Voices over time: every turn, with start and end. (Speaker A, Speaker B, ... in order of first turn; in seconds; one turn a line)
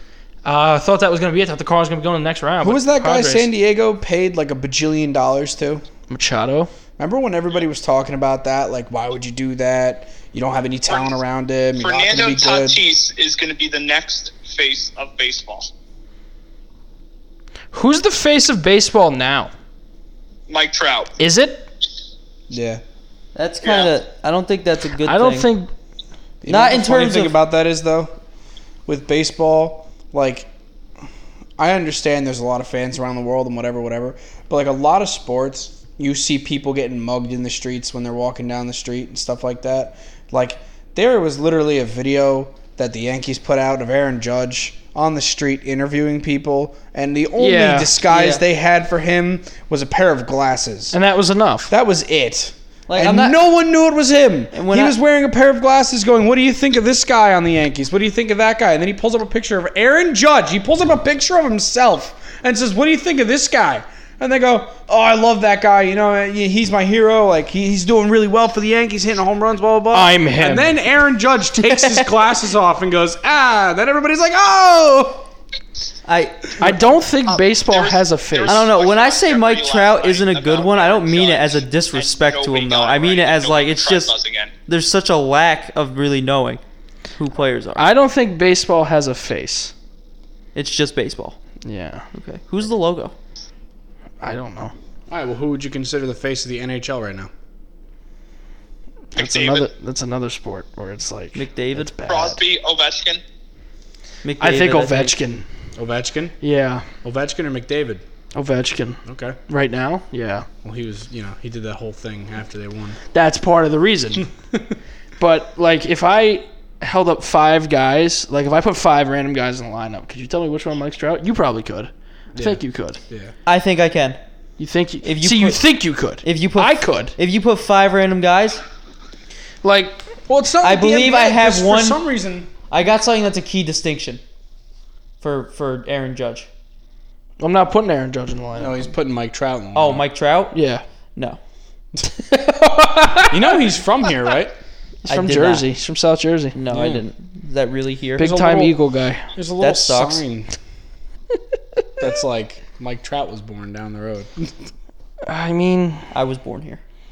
Speaker A: 0.4-3.5
Speaker B: 2.6-5.8
Speaker A: 6.1-6.7
Speaker B: 7.0-12.8
Speaker C: 10.9-11.1
Speaker C: 11.8-15.7
Speaker A: 17.7-19.5
Speaker C: 20.5-21.1
Speaker A: 21.2-21.7
Speaker B: 22.5-22.8
Speaker D: 23.3-25.5
Speaker C: 23.6-23.9
Speaker A: 25.0-25.7
Speaker B: 26.4-28.1
Speaker D: 26.5-27.4
Speaker B: 28.9-30.5
Speaker B: 31.6-51.0
Speaker A: 47.4-47.9
Speaker D: 48.1-48.4
Speaker A: 50.9-51.7
Speaker B: 51.7-75.2
Speaker D: 52.9-53.4
Speaker D: 54.5-54.9
Speaker A: 69.9-70.8
Speaker D: 76.0-76.9
Speaker A: 76.6-78.7
Speaker C: 77.2-84.5
Speaker D: 78.5-84.1
Speaker D: 84.7-86.6
Speaker D: 87.2-87.9
Speaker A: 87.8-89.7
Speaker D: 90.5-91.4
Speaker A: 91.6-92.0
Speaker D: 92.1-93.1
Speaker A: 94.2-94.7
Speaker B: 95.1-97.3
Speaker A: 99.1-102.4
Speaker C: 99.2-99.7
Speaker D: 101.3-102.0
Speaker C: 102.0-103.2
Speaker D: 104.2-105.2
Speaker A: 104.4-105.5
Speaker B: 105.8-106.4
Speaker A: 106.4-106.9
Speaker B: 107.0-108.0
Speaker A: 108.3-110.5
Speaker B: 109.0-109.4
Speaker B: 110.6-113.0
Speaker A: 113.1-114.3
Speaker B: 114.2-114.7
Speaker A: 115.2-123.0
Speaker B: 122.3-123.3
Speaker D: 123.4-124.2
Speaker A: 124.6-127.2
Speaker D: 125.0-125.6
Speaker D: 126.2-128.6
Speaker A: 129.6-130.0
Speaker B: 130.3-132.5
Speaker D: 130.6-132.0
Speaker D: 132.7-134.2
Speaker D: 135.2-136.5
Speaker A: 137.4-138.8
Speaker B: 138.6-140.0
Speaker D: 139.7-140.5
Speaker A: 140.5-140.8
Speaker A: 142.2-143.6
Speaker B: 143.3-144.5
Speaker A: 145.0-146.6
Speaker D: 145.1-145.7
Speaker D: 146.5-148.4
Speaker B: 146.7-147.0
Speaker A: 148.2-149.3
Speaker B: 148.2-148.8
Speaker B: 149.3-150.5
Speaker D: 149.6-150.2
Speaker B: 152.0-154.5
Speaker A: 155.2-156.1
Speaker D: 156.1-156.8